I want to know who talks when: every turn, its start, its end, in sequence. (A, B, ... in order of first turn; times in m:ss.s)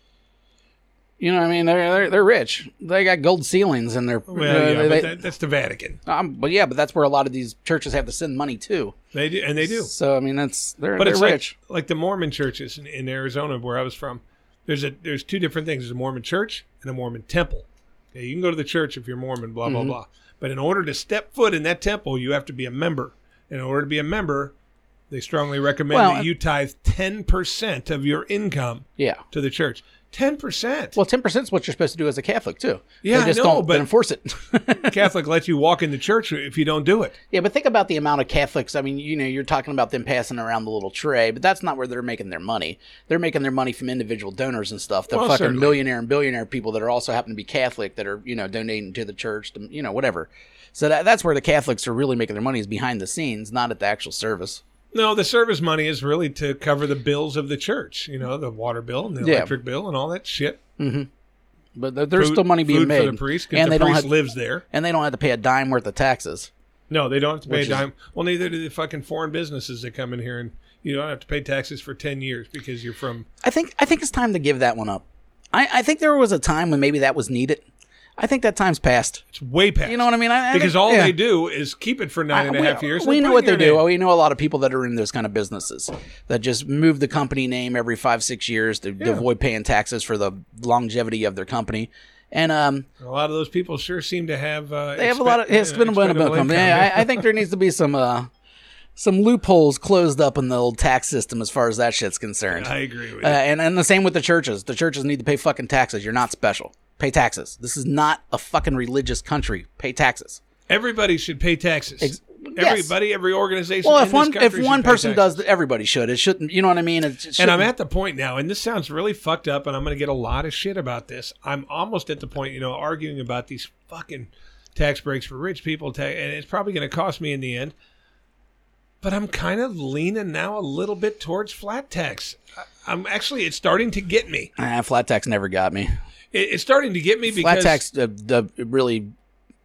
0:01.2-0:05.2 A
0:04.3-0:06.0 B
0:06.0-0:09.0 A
0:09.1-0:09.9 B
0:09.6-0:11.5 A
0:11.0-0:24.5 B
0:19.6-0:19.9 A
0:25.1-0:31.0 B
0:25.9-0:26.3 A
0:29.0-0:29.2 A
0:31.0-0:35.0 A
0:33.0-0:33.9 B
0:34.8-0:37.2 B
0:37.3-0:54.6 A
0:45.1-0:45.8 B
0:54.9-1:00.6 B
0:59.2-0:59.5 A
1:00.8-1:01.1 A
1:01.8-1:04.1 A
1:02.2-1:04.6 B
1:04.7-1:06.5 A
1:06.9-1:13.2 B
1:07.5-1:07.8 A
1:13.4-1:17.6 A
1:18.2-1:19.2 A
1:19.3-1:23.8 B
1:19.8-1:21.2 A
1:22.3-1:32.9 A
1:29.0-1:29.2 B
1:33.0-1:37.3 B
1:35.0-1:38.3 A
1:39.0-1:50.4 A
1:42.5-1:43.4 B
1:50.7-1:55.3 B
1:52.0-1:52.9 A
1:53.8-1:57.7 A
1:57.4-2:07.7 B
2:09.0-2:14.5 B
2:14.6-2:15.9 A
2:16.3-2:17.8 B
2:17.3-2:19.1 A